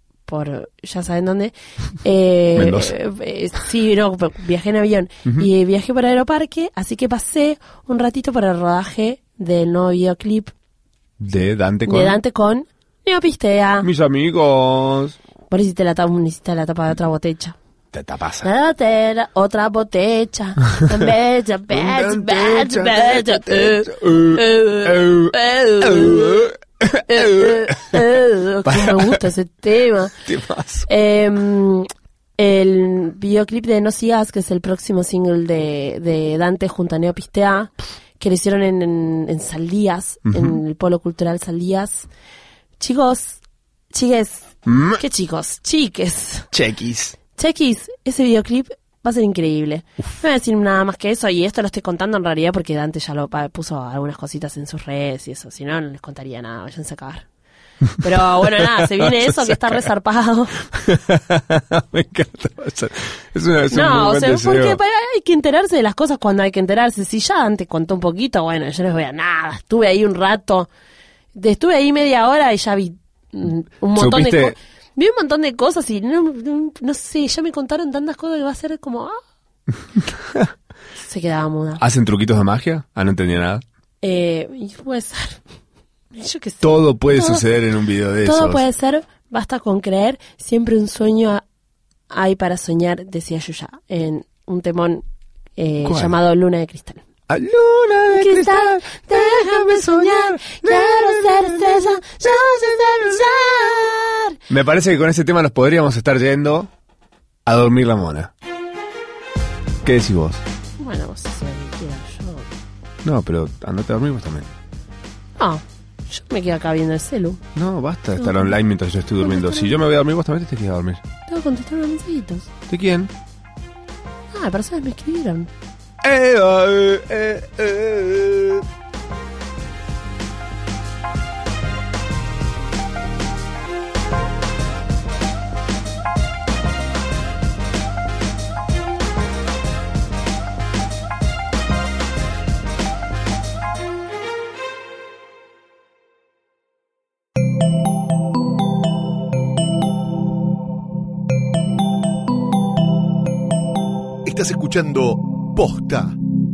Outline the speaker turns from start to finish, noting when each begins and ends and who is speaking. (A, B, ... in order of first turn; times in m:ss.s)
0:00.3-0:10.5 A
0:02.6-0:02.9 B
0:11.2-0:12.2 B
0:11.8-0:13.9 A
0:13.8-0:15.2 B
0:15.5-0:17.6 A
0:17.9-0:18.5 B
0:18.4-0:26.5 A
0:21.7-0:28.0 B
0:27.0-0:30.2 A
0:28.6-0:29.2 B
0:30.2-0:30.9 B
0:30.9-0:42.1 A
0:40.2-0:40.6 B
0:42.8-0:43.4 A
0:43.9-0:46.5 A
0:44.6-0:45.0 B
0:46.5-0:47.2 B
0:47.3-0:57.3 A
0:58.0-1:00.6 A
0:58.4-0:59.9 B
1:00.6-1:04.8 B
1:03.7-1:10.7 A
1:11.4-1:19.2 A
1:13.9-1:14.6 B
1:20.0-1:20.5 B
1:21.0-1:21.8 A
1:21.8-1:23.6 B
1:24.0-1:25.4 A
1:26.1-1:27.5 A
1:26.6-1:28.6 B
1:28.2-1:31.4 A
1:32.1-1:35.0 A
1:35.6-1:37.0 A
1:35.8-1:36.2 B
1:37.3-1:42.0 B
1:38.1-1:44.4 A
1:44.5-1:46.7 B
1:47.4-1:48.3 B
1:49.8-1:50.4 B
1:50.8-1:52.4 A
1:53.0-1:54.5 B
1:55.4-1:57.4 A
1:57.5-2:01.0 B
1:58.2-1:58.5 A
1:59.2-1:59.7 A
2:01.3-2:02.5 A
2:02.7-2:03.1 B
2:04.3-2:05.5 A
2:06.0-2:08.6 B
2:34.2-2:36.2 C